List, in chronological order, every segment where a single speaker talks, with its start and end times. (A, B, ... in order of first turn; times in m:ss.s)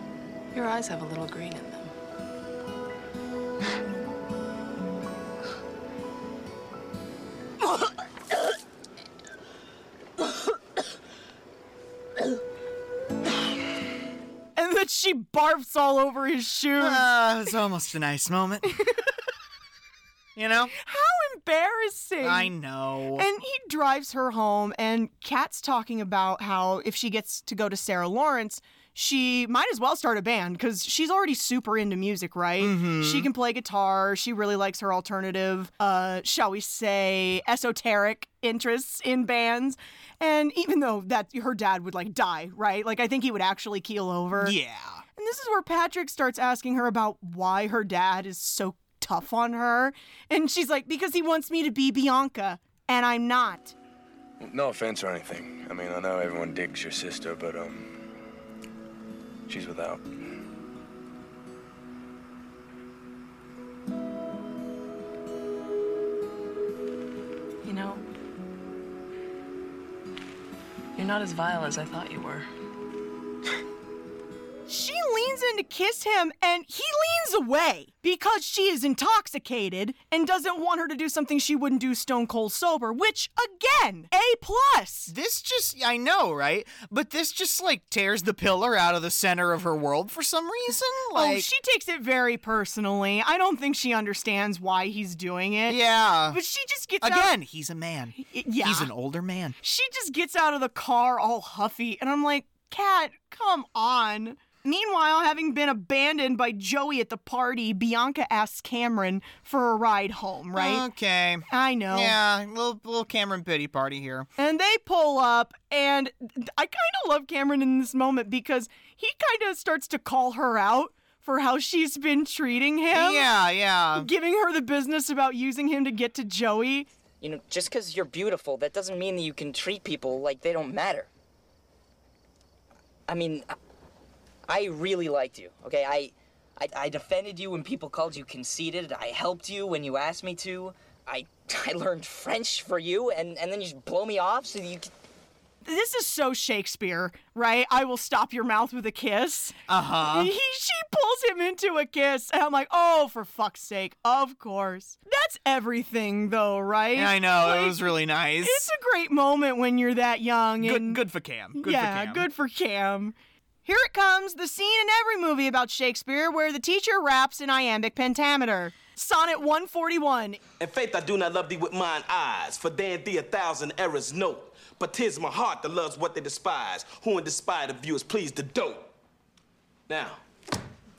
0:00.5-0:01.9 A
0:14.6-0:17.0 B
0:16.8-0:18.7 C
0:18.8-0:19.1 B
0:20.4-0:20.7 C
0:20.8-0:22.5 B
0:22.2-0:23.3 C
0:23.2-0:44.6 B
0:32.6-0:33.3 C
0:44.4-0:45.0 C
0:45.2-0:53.7 B
0:54.4-0:58.0 D
0:59.5-1:00.1 D
1:07.6-1:08.0 A
1:11.0-1:12.5 A
1:14.7-1:25.1 B
1:25.1-1:31.5 C
1:31.1-1:37.3 B
1:35.7-1:36.4 C
1:37.0-1:39.6 C
1:38.2-1:38.9 B
1:39.6-1:50.9 B
1:50.6-1:54.3 C
1:51.5-1:52.2 B
1:54.4-2:03.3 B
2:02.9-2:04.1 C
2:04.0-2:06.9 B
2:07.2-2:11.1 E
2:13.1-2:13.6 E
2:14.5-2:24.9 E
2:25.6-2:41.0 B
2:29.7-2:30.3 C
2:37.0-2:38.7 C
2:40.6-2:42.3 C
2:41.6-2:50.4 B
2:50.6-2:58.9 F
2:59.9-3:00.2 F